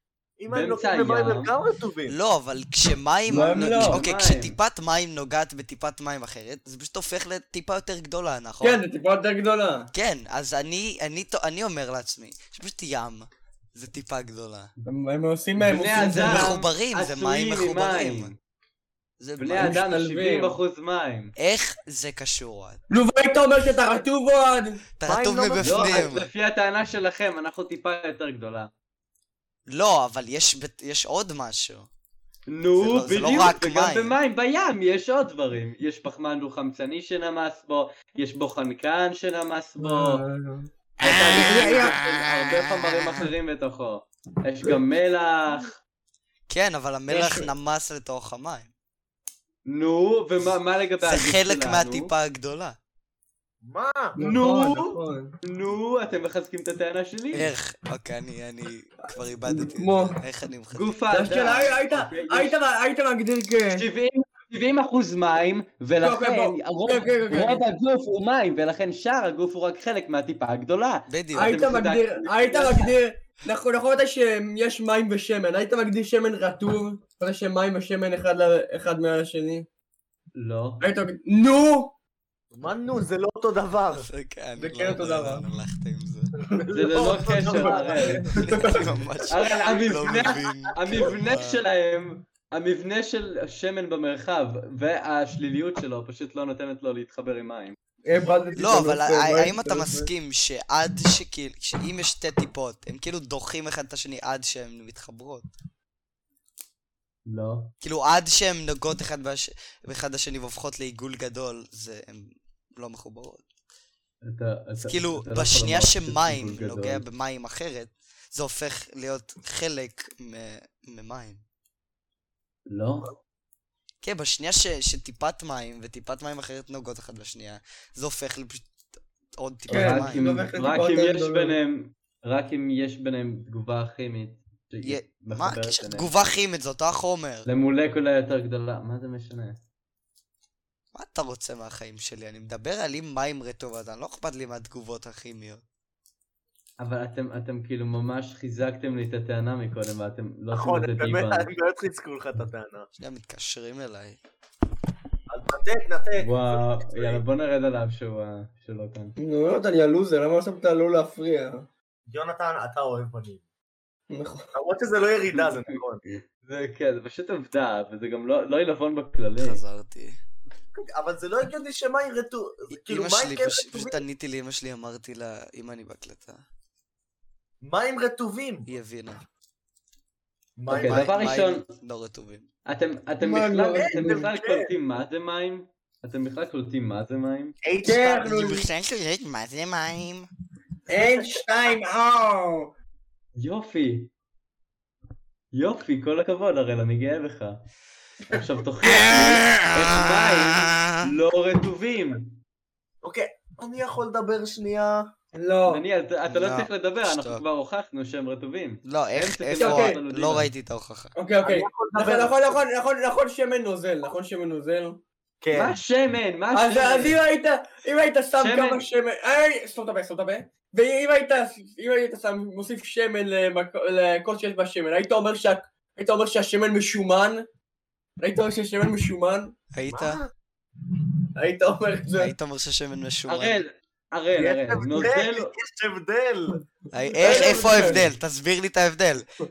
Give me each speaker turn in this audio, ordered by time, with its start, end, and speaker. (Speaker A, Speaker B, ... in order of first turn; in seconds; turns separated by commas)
Speaker A: 0.4-2.1, Speaker B: 0.5-1.5, Speaker C: 2.1-8.8, Speaker D: 3.3-4.0, Speaker B: 3.4-4.6, Speaker D: 8.6-9.9, Speaker C: 9.9-14.7, Speaker D: 14.8-16.5, Speaker B: 15.6-18.3, Speaker C: 15.9-18.3, Speaker C: 19.2-19.8, Speaker B: 19.4-21.3, Speaker D: 19.5-20.6, Speaker C: 21.4-22.8, Speaker D: 22.9-24.8, Speaker C: 25.0-26.3, Speaker A: 25.0-26.1, Speaker B: 25.6-28.7, Speaker C: 29.7-31.9, Speaker B: 32.5-40.2, Speaker C: 32.8-34.1, Speaker D: 39.8-42.0, Speaker B: 41.0-45.7, Speaker C: 41.1-42.5, Speaker C: 46.5-48.7, Speaker D: 47.1-47.5, Speaker B: 49.6-52.1, Speaker C: 51.0-52.8, Speaker A: 53.6-54.2, Speaker D: 54.1-55.4, Speaker B: 54.2-57.5, Speaker C: 57.3-60.9, Speaker D: 59.5-60.2, Speaker B: 60.7-62.6, Speaker D: 61.1-63.8, Speaker B: 63.7-72.9, Speaker D: 66.0-67.6, Speaker C: 71.1-71.7, Speaker D: 71.3-79.7, Speaker B: 80.3-80.9, Speaker D: 80.8-81.9, Speaker A: 82.5-84.1, Speaker C: 83.9-86.3, Speaker D: 84.6-85.5, Speaker A: 86.5-88.4, Speaker D: 86.5-89.0, Speaker B: 86.7-88.3, Speaker C: 88.4-91.6, Speaker B: 89.3-97.8, Speaker A: 90.0-91.1, Speaker D: 98.0-100.1, Speaker C: 98.5-105.5, Speaker B: 107.2-107.7, Speaker C: 107.8-113.4, Speaker B: 114.2-117.0, Speaker C: 114.8-121.4, Speaker B: 122.7-123.1, Speaker C: 124.0-128.7, Speaker C: 129.3-130.3, Speaker D: 129.7-131.5, Speaker B: 129.7-136.1, Speaker C: 134.8-137.5, Speaker B: 137.4-139.6, Speaker C: 140.9-145.6, Speaker B: 146.8-151.5, Speaker A: 150.5-152.9, Speaker C: 153.0-154.2, Speaker A: 155.3-157.2, Speaker B: 156.2-159.2, Speaker D: 159.2-161.7, Speaker A: 162.1-163.4, Speaker D: 164.1-164.5, Speaker A: 164.5-166.0, Speaker B: 165.3-169.6, Speaker C: 169.4-170.2, Speaker A: 170.8-174.0, Speaker C: 172.7-176.4, Speaker A: 177.6-178.7, Speaker C: 178.7-179.2, Speaker A: 180.6-181.1, Speaker B: 180.7-181.6, Speaker C: 180.8-182.5, Speaker B: 182.7-187.6, Speaker D: 183.2-184.3, Speaker A: 183.7-184.7, Speaker A: 187.6-188.3, Speaker D: 187.8-188.7, Speaker C: 188.2-190.3, Speaker D: 190.9-192.7, Speaker A: 190.9-191.5, Speaker B: 193.3-194.1, Speaker B: 195.5-197.6, Speaker B: 198.3-202.4, Speaker C: 199.0-201.0, Speaker A: 203.0-205.1, Speaker D: 205.3-205.8, Speaker B: 205.7-210.5, Speaker C: 206.3-207.4, Speaker C: 208.8-211.1, Speaker D: 209.6-210.0, Speaker D: 211.1-215.0, Speaker A: 211.4-212.3, Speaker A: 215.4-215.8, Speaker B: 215.5-217.2, Speaker D: 216.5-227.5, Speaker B: 218.4-218.8, Speaker D: 228.2-229.5, Speaker C: 229.7-230.2, Speaker A: 229.9-230.3, Speaker D: 230.8-232.3, Speaker C: 232.2-233.6, Speaker B: 233.3-235.5, Speaker A: 234.3-236.6, Speaker C: 236.9-239.2, Speaker D: 237.2-238.1, Speaker A: 237.3-237.6